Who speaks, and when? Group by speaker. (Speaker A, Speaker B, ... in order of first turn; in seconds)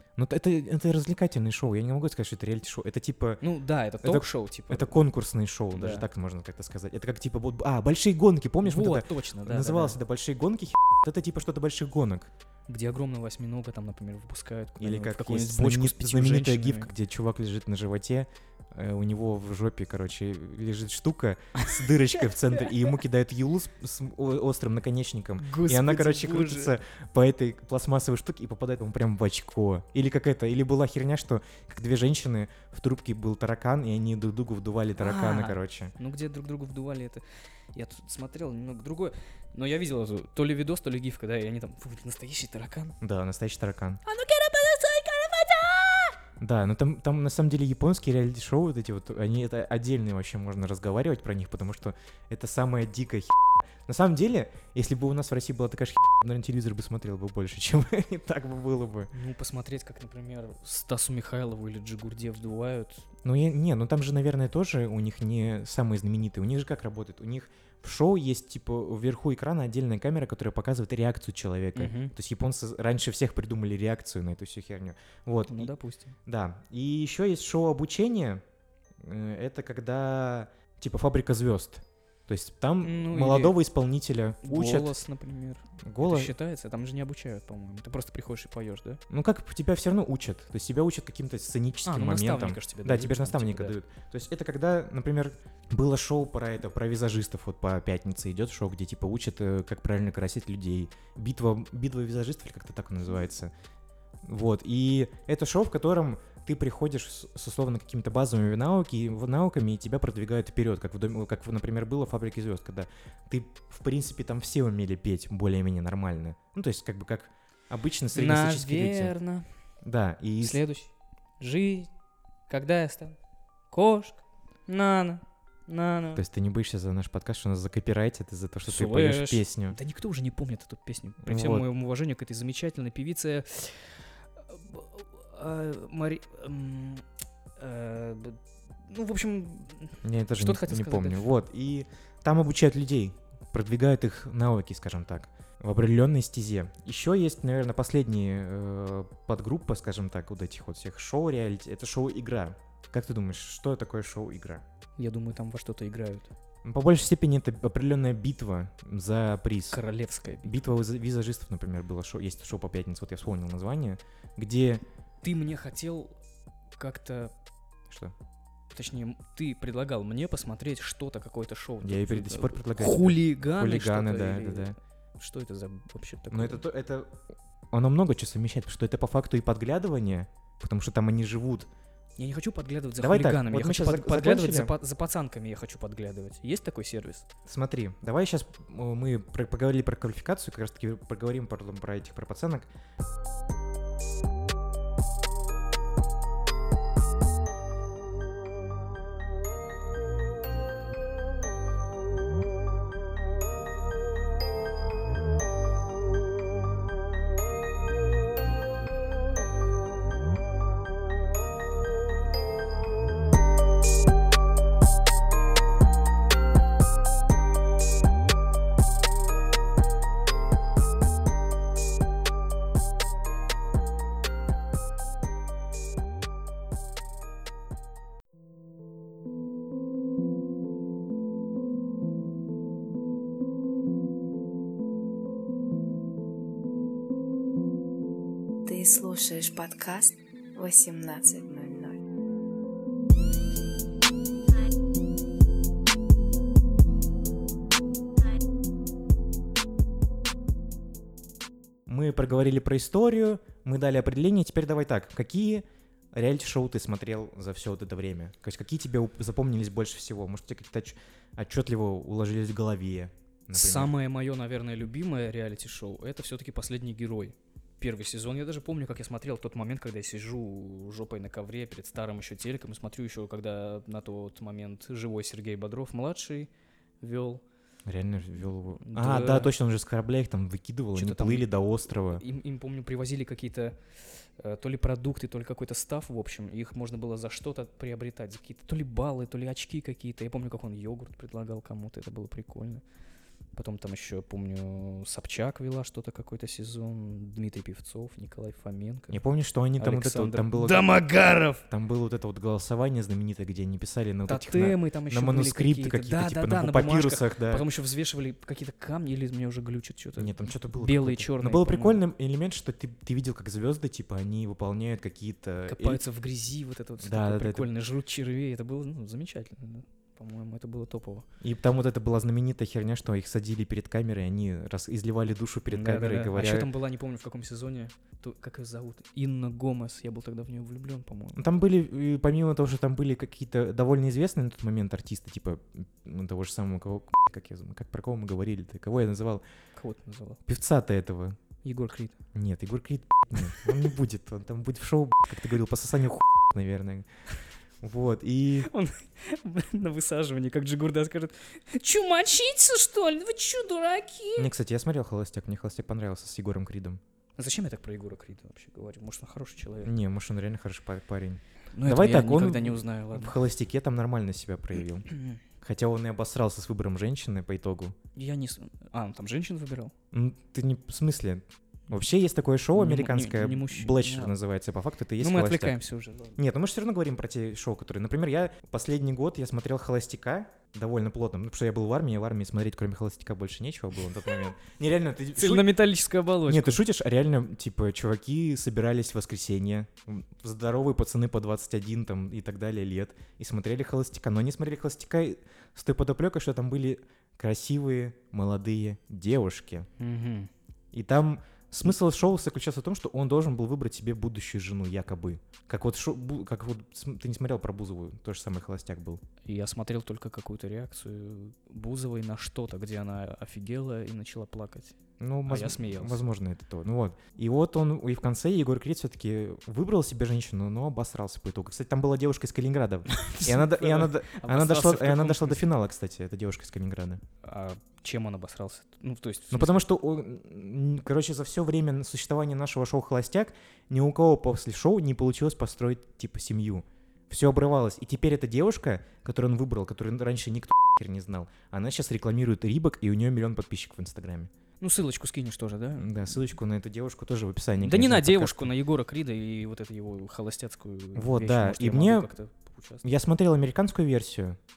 Speaker A: 0.2-3.4, 4.0-12.3, 14.8-35.9, 43.0-44.0, 46.4-59.1, 63.2-75.7, 76.2-78.4, 79.0-84.9, 85.8-86.3, 89.1-103.5, 104.2-119.1, 119.8-120.6, 126.1-129.8, 131.2-131.7, 140.0-154.6, 156.6-159.8, 160.4-164.8, 171.8-174.8, 176.3-177.1, 177.7-181.7, 183.0-184.7, 187.4-192.7, 251.9-263.9, 277.9-282.2, 299.1-300.9, 301.7-307.6, 310.2-316.0, 317.0-317.7, 321.4-326.7, 331.4-339.4, 340.4-341.4, 342.3-347.1, 347.8-348.7, 354.4-357.0, 359.8-365.1, 365.6-367.9, 370.1-375.8, 376.4-385.8, 386.4-399.9, 400.9-409.2, 415.2-427.2, 429.5-444.5, 446.0-448.7, 451.1-452.3, 453.0-454.6
Speaker B: 3.4-5.0, 5.7-6.1, 8.6-10.0, 12.7-16.9, 25.4-26.7, 35.0-43.0, 44.0-46.1, 59.1-63.1, 71.7-72.1, 75.5-76.2, 82.8-83.6, 84.4-89.0, 91.8-93.8, 118.1-119.5, 120.4-121.9, 122.5-123.2, 123.7-126.2, 128.7-137.0, 137.6-141.3, 155.0-156.3, 159.7-160.6, 165.2-166.1, 166.8-167.3, 168.7-176.6, 182.2-187.2, 263.5-276.5, 277.0-277.4, 278.8-279.5, 280.9-283.8, 284.4-292.8, 293.5-299.2, 299.8-301.6, 304.3-312.0, 315.7-321.2, 325.7-331.4, 339.8-340.4, 341.6-342.2, 348.6-354.5, 357.4-359.9, 361.7-363.4, 365.1-365.4, 368.1-369.9, 372.7-374.3, 375.2-376.4, 385.4-386.8, 400.0-400.5, 409.4-414.9, 415.4-416.2, 423.1-425.6, 427.4-429.8, 444.8-446.1, 447.8-453.1
Speaker C: 238.7-242.0